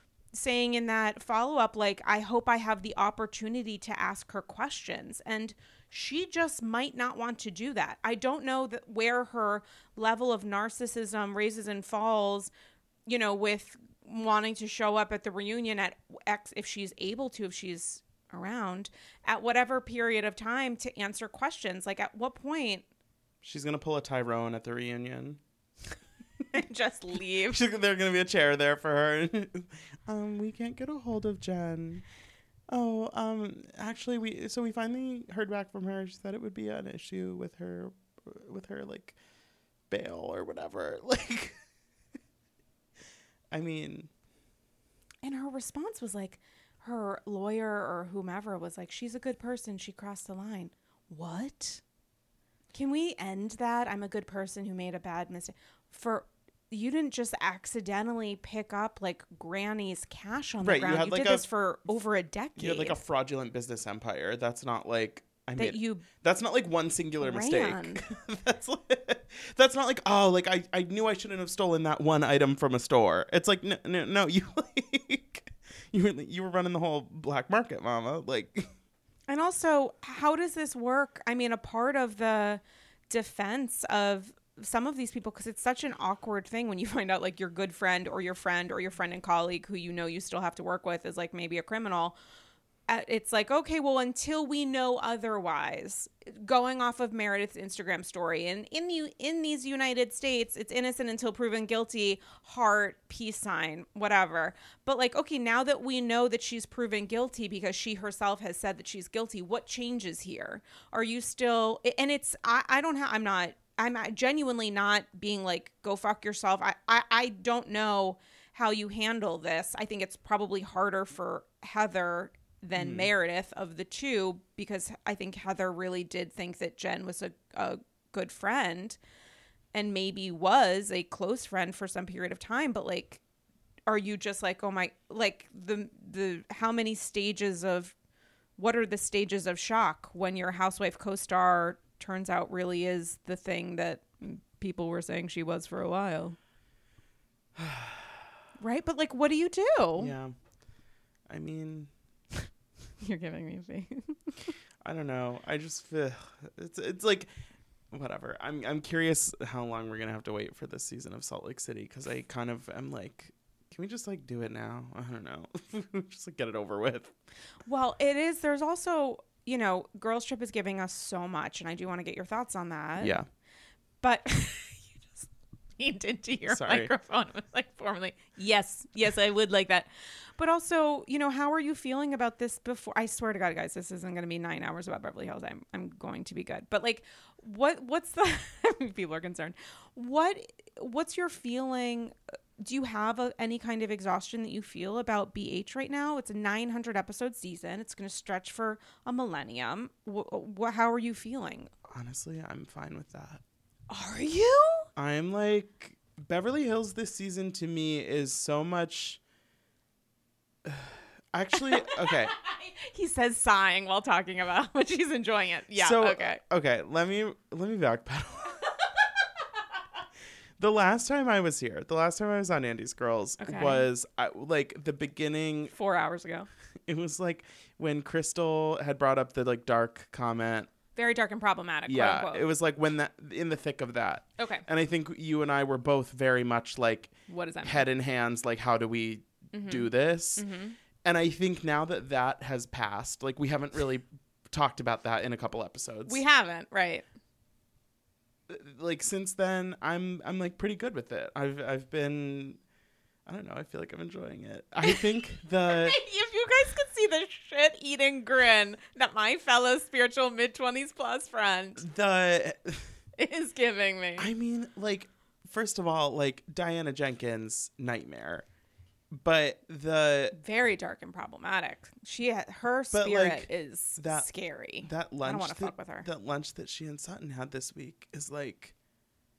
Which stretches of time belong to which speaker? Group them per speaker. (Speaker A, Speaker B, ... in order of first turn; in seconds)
Speaker A: 0.3-12.5, 13.1-22.9, 26.5-27.6, 45.2-51.8, 52.7-63.0, 65.6-66.1, 67.2-68.0, 79.3-92.2, 92.9-129.0, 129.7-133.2, 133.9-137.9, 138.6-146.4, 148.6-150.1, 153.0-154.6, 167.7-173.2, 174.0-175.3, 175.8-201.7, 203.9-204.9, 211.5-216.4, 223.4-223.9, 225.7-226.5, 230.9-232.5, 234.4-234.6, 237.3-237.9, 239.5-240.8, 246.1-247.1, 255.7-261.8, 263.2-264.3, 270.3-276.1
Speaker B: 23.4-25.4, 27.5-32.0, 32.7-39.2, 39.9-41.5, 43.5-44.1, 60.6-61.5, 62.6-78.7, 122.8-123.1, 147.6-148.3, 150.0-150.3, 151.3-151.9, 154.8-157.3, 157.9-167.1, 173.0-173.3, 176.5-176.9, 201.9-203.4, 205.0-209.2, 210.7-212.3, 215.8-218.6, 220.6-225.7, 226.9-230.7, 231.9-237.1, 237.6-240.4, 241.0-246.2, 248.5-252.6, 253.3-256.0, 261.8-262.9, 264.2-268.5, 269.1-270.4, 272.9-274.3, 274.8-278.7